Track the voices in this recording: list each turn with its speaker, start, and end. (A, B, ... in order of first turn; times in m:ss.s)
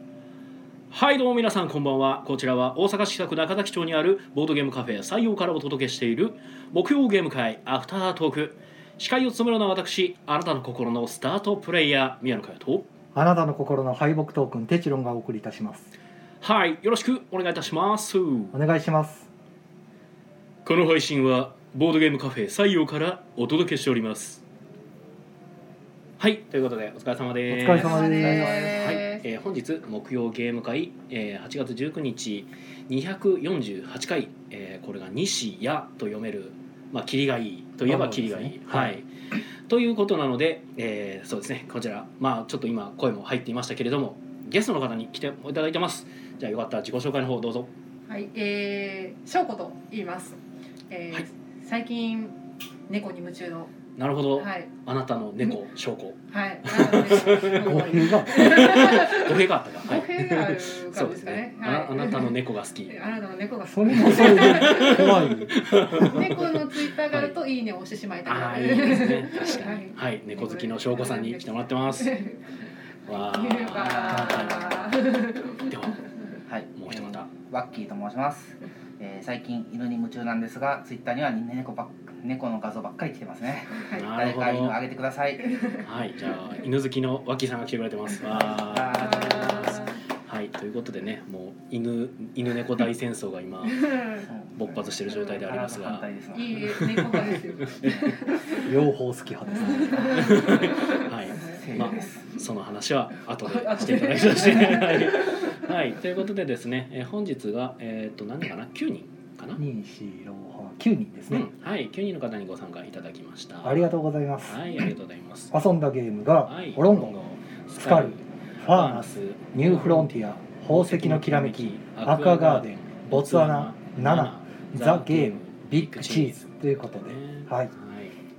0:00.9-0:12.9 A
0:13.1-0:15.9 B
0:16.4-0:18.6 A
0:18.5-0:19.3 B
0:20.6-0:24.4 A
0:26.2-0:39.1 A
0:27.5-0:28.8 B
0:27.7-0:29.2 C
0:37.9-0:39.0 B
0:39.7-0:47.7 A
0:48.1-0:50.4 C
0:50.9-0:52.4 C
0:52.9-0:53.7 C
0:54.0-1:03.0 A
0:54.3-0:54.7 C
0:56.3-1:05.4 C
0:57.3-0:58.7 B
1:03.7-1:06.3 B
1:04.0-1:07.4 A
1:06.0-1:16.4 C
1:08.2-1:12.2 A
1:13.1-1:14.9 A
1:14.1-1:14.5 B
1:15.7-1:16.0 A
1:16.5-1:25.8 D
1:16.7-1:17.3 A
1:23.9-1:24.8 A
1:25.8-1:36.1 A
1:28.3-1:29.9 D
1:28.9-1:30.0 C
1:33.8-1:34.2 C
1:34.2-1:37.0 D
1:36.3-1:38.7 C
1:36.6-1:38.2 A
1:37.8-1:38.1 D
1:38.6-1:40.5 B
1:39.5-1:42.1 C
1:39.9-1:40.7 D
1:40.0-1:49.6 A
1:41.5-1:42.3 D
1:43.4-1:45.6 C
1:49.6-1:51.5 B
1:51.3-1:55.5 A
1:53.6-1:54.8 B
1:55.5-1:57.2 B
1:56.5-2:08.2 A
1:57.8-2:07.7 B